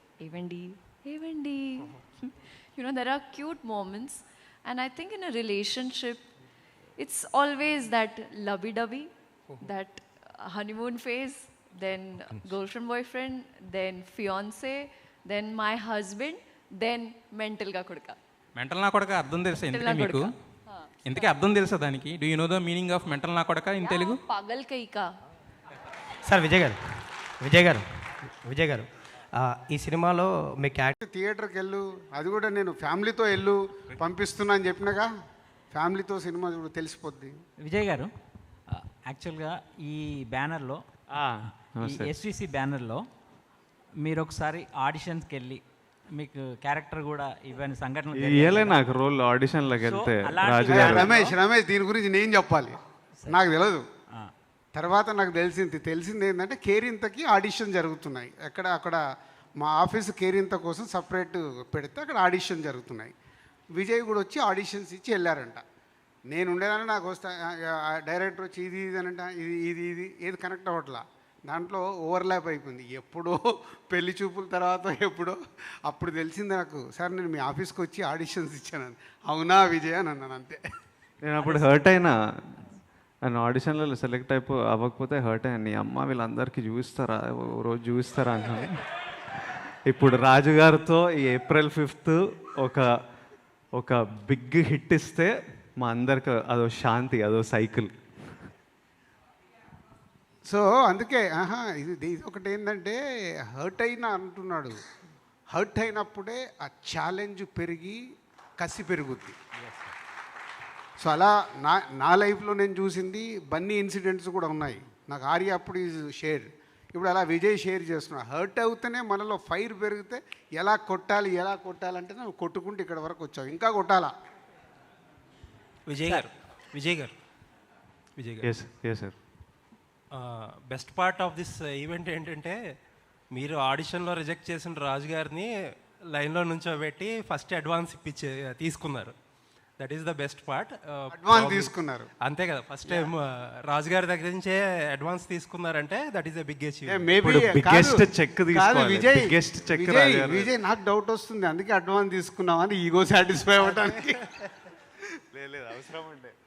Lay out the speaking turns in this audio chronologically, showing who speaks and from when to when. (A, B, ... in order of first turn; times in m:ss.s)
0:00.2-0:06.3 A
0:07.0-0:18.2 A
0:18.6-0:20.3 B
0:19.5-0:21.3 A
0:21.0-0:24.2 B
0:23.8-0:25.1 A
0:26.2-0:30.9 C
0:31.0-0:35.1 D
0:35.7-0:37.4 D
0:37.6-0:38.1 E
0:38.7-0:40.8 E
0:41.1-0:42.1 F
0:41.8-0:43.1 E
0:44.0-0:48.8 E
0:48.1-0:51.1 F
0:49.8-0:51.3 E
0:50.7-0:53.9 D
0:54.8-0:59.0 D
0:59.6-1:03.1 D
1:03.8-1:05.6 D
1:06.3-1:13.4 D
1:13.9-1:20.6 D
1:21.2-1:22.7 F
1:23.2-1:32.9 F
1:33.8-1:38.0 F
1:40.4-1:43.0 D
1:43.5-1:44.8 D
1:45.5-1:48.0 D
1:48.6-1:49.4 D
1:49.6-1:49.9 E
1:51.0-2:04.1 D
2:05.9-2:07.1 G
2:08.2-2:08.5 G
2:08.4-2:09.2 F
2:10.1-2:12.6 G
2:13.3-2:15.5 G
2:16.1-2:19.1 G
2:19.8-2:27.1 G
2:21.1-2:22.1 D
2:26.9-2:34.5 D
2:27.2-2:30.5 F
2:35.3-2:36.3 F